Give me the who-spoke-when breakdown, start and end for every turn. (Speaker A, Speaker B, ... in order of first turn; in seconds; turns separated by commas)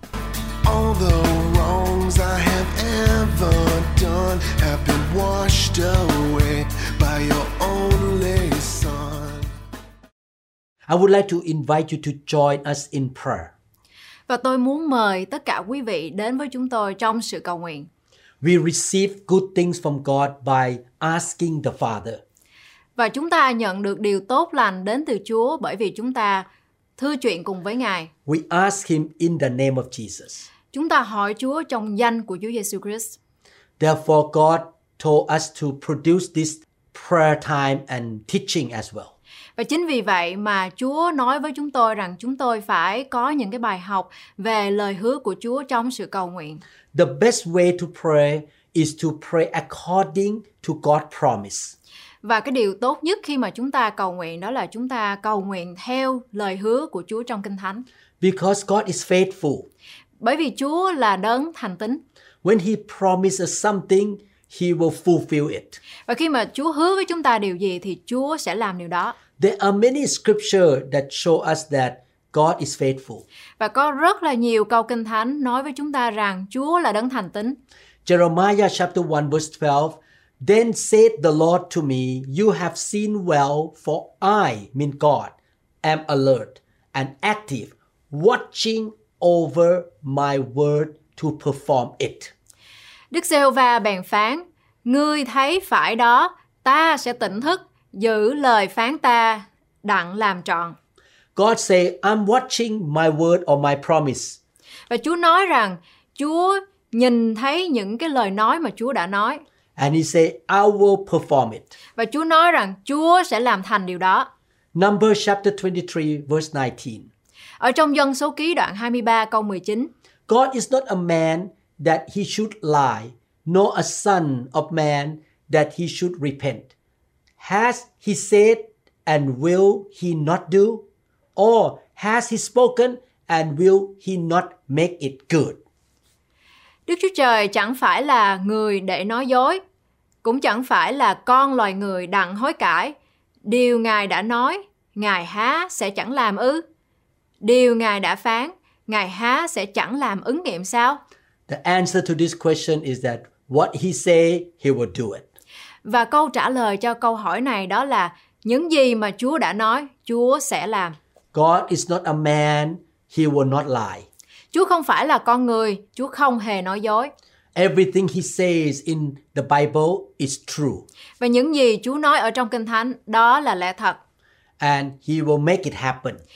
Speaker A: 0.6-9.5, Speaker B: 10.9-13.5, Speaker C: 14.3-17.9, Speaker B: 18.4-22.2, Speaker C: 22.9-26.4, Speaker C: 27.0-28.1, Speaker B: 28.2-30.5, Speaker C: 30.7-33.2, Speaker B: 33.8-39.1, Speaker C: 39.6-46.6, Speaker B: 46.9-51.7, Speaker C: 52.2-57.8, Speaker B: 58.2-59.7, Speaker C: 60.2-62.0, Speaker B: 62.4-65.8, Speaker C: 66.1-69.2, Speaker B: 69.4-73.2, Speaker C: 73.6-77.6, Speaker B: 78.0-92.3, Speaker C: 93.1-100.8, Speaker B: 101.3-104.4, Speaker C: 104.9-109.4, Speaker B: 109.8-111.7, Speaker C: 112.0-114.3, Speaker B: 114.7-117.1, Speaker C: 117.6-119.9, Speaker B: 120.3-126.7, Speaker B: 127.4-135.6, Speaker C: 136.9-139.6, Speaker C: 140.2-146.6, Speaker C: 147.4-151.0, Speaker B: 151.5-155.2, Speaker C: 155.8-161.0, Speaker B: 161.3-164.1, Speaker C: 164.5-167.1, Speaker B: 167.5-170.8, Speaker C: 171.2-174.0, Speaker B: 174.6-176.2